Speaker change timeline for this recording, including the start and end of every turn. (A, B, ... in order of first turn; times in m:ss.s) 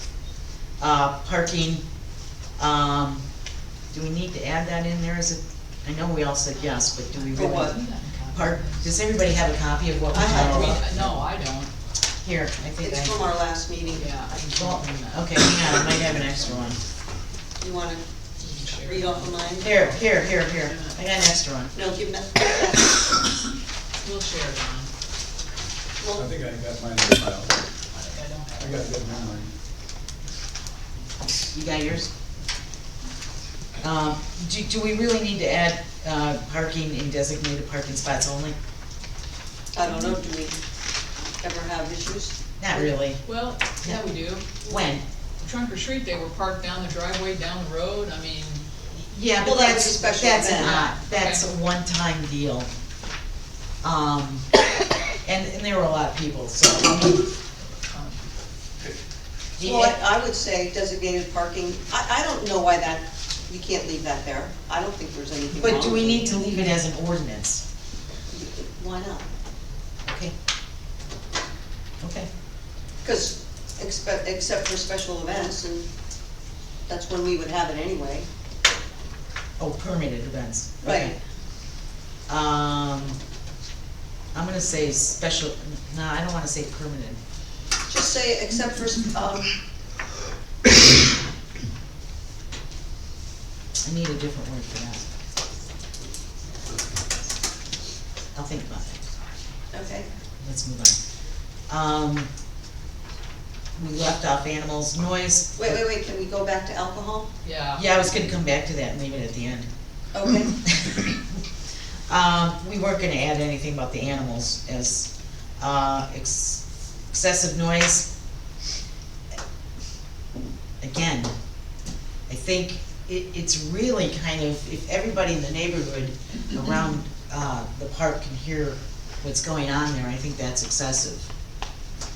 0:00.8-0:01.8 A
0:02.6-0:03.2 A
0:03.9-0:07.8 A
0:06.7-0:08.9 B
0:07.3-0:07.8 C
0:08.3-0:10.8 A
0:10.1-0:11.7 B
0:10.1-0:10.8 C
0:12.2-0:13.2 A
0:12.8-0:14.2 C
0:13.9-0:15.2 B
0:14.3-0:16.8 A
0:17.6-0:18.0 C
0:18.4-0:20.9 B
0:18.8-0:19.9 C
0:19.6-0:21.7 A
0:21.7-0:23.1 C
0:24.0-0:24.9 B
0:26.0-0:26.3 C
0:26.1-0:27.6 D
0:28.1-0:29.2 B
0:28.6-0:29.5 D
0:31.5-0:32.1 A
0:33.8-0:38.6 A
0:39.7-0:40.6 C
0:41.4-0:42.9 C
0:42.6-0:43.2 A
0:43.2-0:48.6 B
0:44.6-0:45.0 A
0:48.9-0:52.7 A
0:49.4-0:50.8 C
0:50.5-0:51.5 B
0:53.8-0:54.5 A
0:55.2-0:57.2 A
0:57.6-0:58.3 B
0:59.6-1:00.0 A
0:59.6-1:06.3 C
1:05.5-1:07.6 A
1:08.3-1:09.3 C
1:10.0-1:10.3 A
1:12.0-1:12.3 A
1:13.0-1:15.9 C
1:16.9-1:18.3 C
1:19.6-1:21.2 A
1:20.8-1:21.2 C
1:22.3-1:23.2 A
1:24.3-1:27.2 A
1:27.9-1:29.5 C
1:33.8-1:35.1 A
1:38.3-1:39.0 A
1:39.7-1:40.1 C
1:40.4-1:41.0 A
1:41.7-1:42.3 A
1:43.8-1:45.8 A
1:45.6-1:47.3 C
1:47.4-1:47.8 B
1:47.7-1:49.7 A
1:50.1-1:50.6 C
1:50.6-1:51.2 A
1:52.1-1:58.1 A
2:00.8-2:01.3 A
2:02.3-2:11.3 A